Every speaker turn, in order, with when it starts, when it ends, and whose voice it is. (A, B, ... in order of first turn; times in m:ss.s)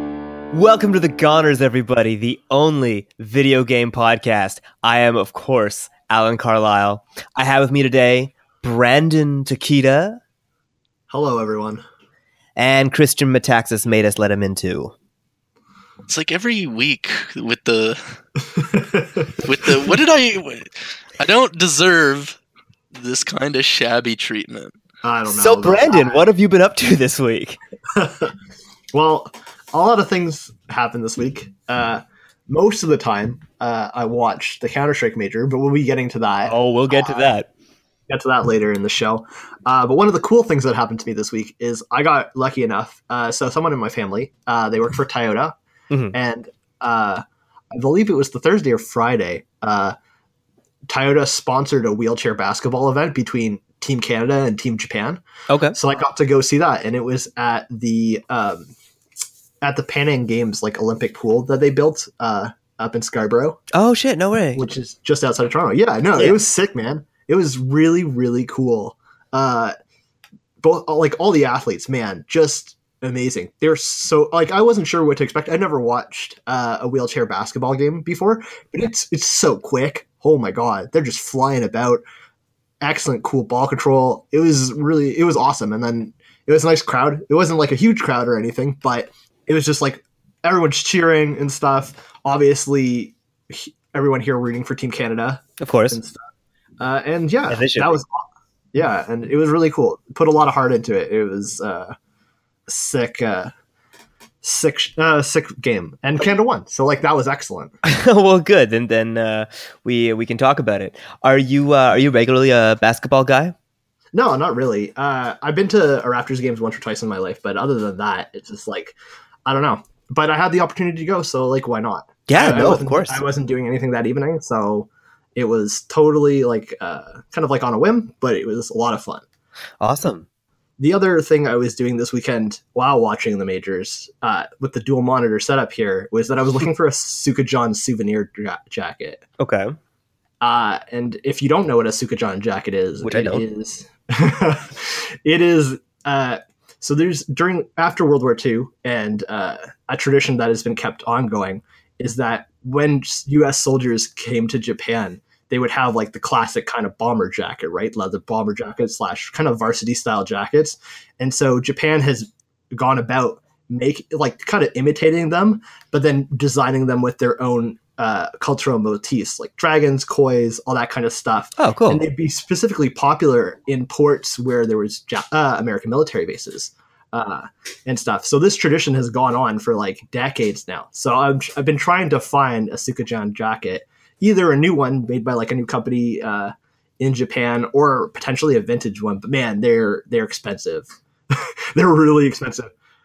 0:00.5-0:10.2 A
0:11.1-0:11.8 B
0:12.6-0:14.9 A
0:16.1-0:18.0 C
0:18.6-0:19.5 B
0:19.4-0:22.4 C
0:23.0-0:24.8 C
0:25.0-0:26.3 B
0:25.3-0:27.6 A
0:27.9-0:28.3 B
0:28.9-0:37.2 B
0:36.5-0:37.5 A
0:38.1-0:45.5 B
0:46.1-0:50.0 B
0:50.9-0:55.2 B
0:55.5-0:55.8 A
0:55.7-0:58.7 B
0:59.6-1:03.6 B
1:03.7-1:04.6 A
1:04.6-1:09.7 B
1:10.6-1:22.0 B
1:22.8-1:36.2 B
1:35.6-1:36.0 A
1:36.8-1:38.2 B
1:37.5-1:38.0 A
1:38.7-1:42.0 B
1:42.7-1:43.5 B
1:44.4-1:47.7 B
1:47.8-1:53.6 A
1:54.1-1:59.0 B
1:59.5-2:09.2 B
2:02.3-2:03.2 A
2:09.8-2:10.3 A
2:10.8-2:19.2 B
2:19.4-2:19.7 A
2:20.4-3:12.7 B
2:23.0-2:23.4 A
2:51.6-2:52.0 A